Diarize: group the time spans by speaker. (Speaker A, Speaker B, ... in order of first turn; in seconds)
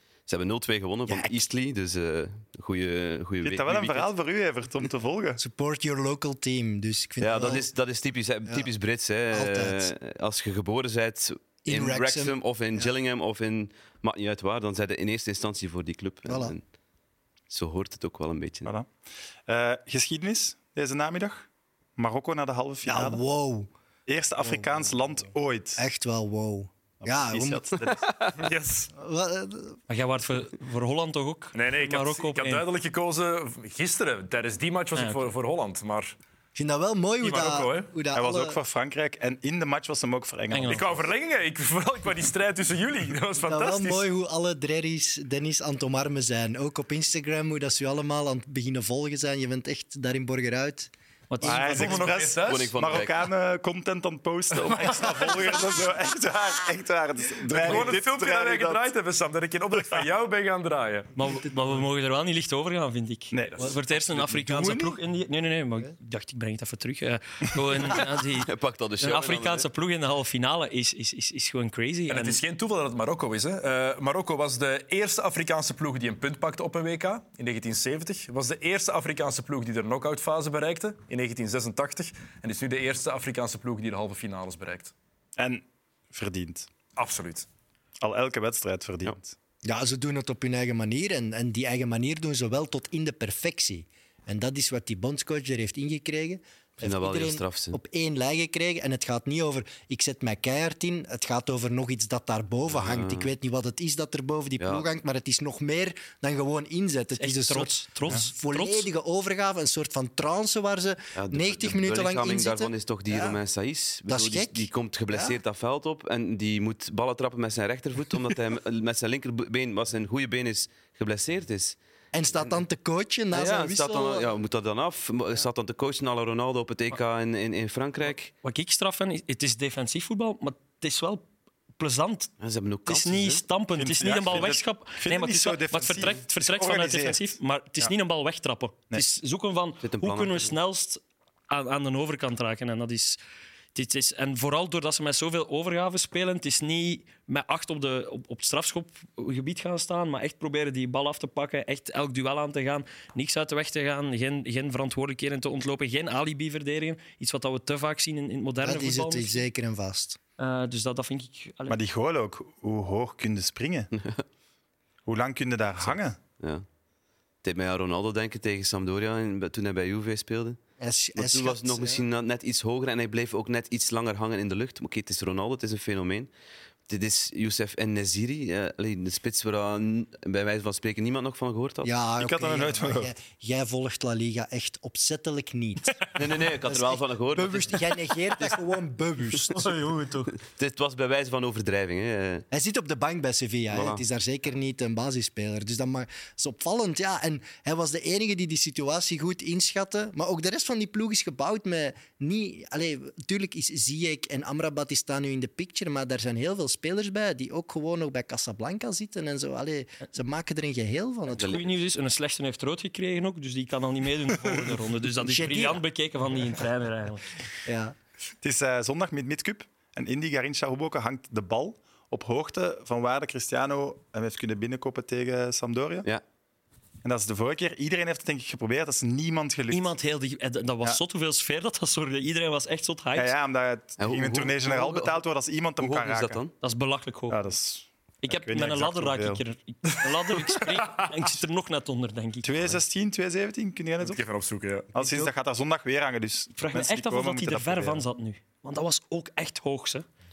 Speaker A: 0.3-4.1, 7.2-16.6, 17.5-18.7, 27.8-28.3, 52.4-53.2, 67.9-69.7, 96.8-97.8, 102.7-103.3, 104.6-104.9, 111.1-121.8, 123.3-128.3, 132.4-133.4, 139.8-140.5, 163.9-164.2, 165.8-166.6, 167.4-170.6, 171.2-176.3, 176.9-181.9, 186.1-187.9, 190.3-192.4, 193.7-194.0, 211.4-211.6, 234.0-235.2, 235.8-236.5
Speaker B: 1.1-1.4, 5.4-7.7, 9.3-9.9, 11.6-12.9, 16.2-16.5, 22.8-23.7, 24.4-27.8, 28.9-29.8, 36.5-38.6, 43.4-50.9, 64.3-65.0, 89.6-113.4, 114.1-115.4, 122.1-124.3, 158.6-160.2, 170.8-172.0, 181.8-189.7, 192.5-211.6, 215.2-215.8, 217.6-217.9, 244.9-245.3
Speaker C: 3.4-5.4, 18.6-18.9, 19.5-23.2, 24.1-25.8, 27.0-28.1, 38.1-41.0, 51.4-58.9, 63.3-63.7, 85.4-86.7, 88.0-89.3, 133.8-137.9, 161.7-163.9, 165.1-166.2, 182.2-183.1, 218.4-226.1, 227.0-229.9, 233.1-236.4, 237.3-239.4, 242.4-244.2, 244.9-248.0
Speaker D: 28.3-28.9, 31.5-36.1, 37.2-37.9, 40.7-44.0, 51.6-52.7, 54.6-55.2, 57.5-61.1, 72.1-84.9, 87.0-87.5, 240.5-241.1, 244.0-244.9
Speaker E: 29.9-32.6, 35.0-35.3, 40.5-40.9, 51.3-52.0, 61.1-72.4, 107.2-108.9, 128.4-131.3, 131.8-132.3, 132.9-143.2, 143.7-159.4, 160.4-161.8, 189.5-190.3, 211.3-217.4, 229.7-233.3, 236.6-237.5, 238.2-242.5, 246.5-250.1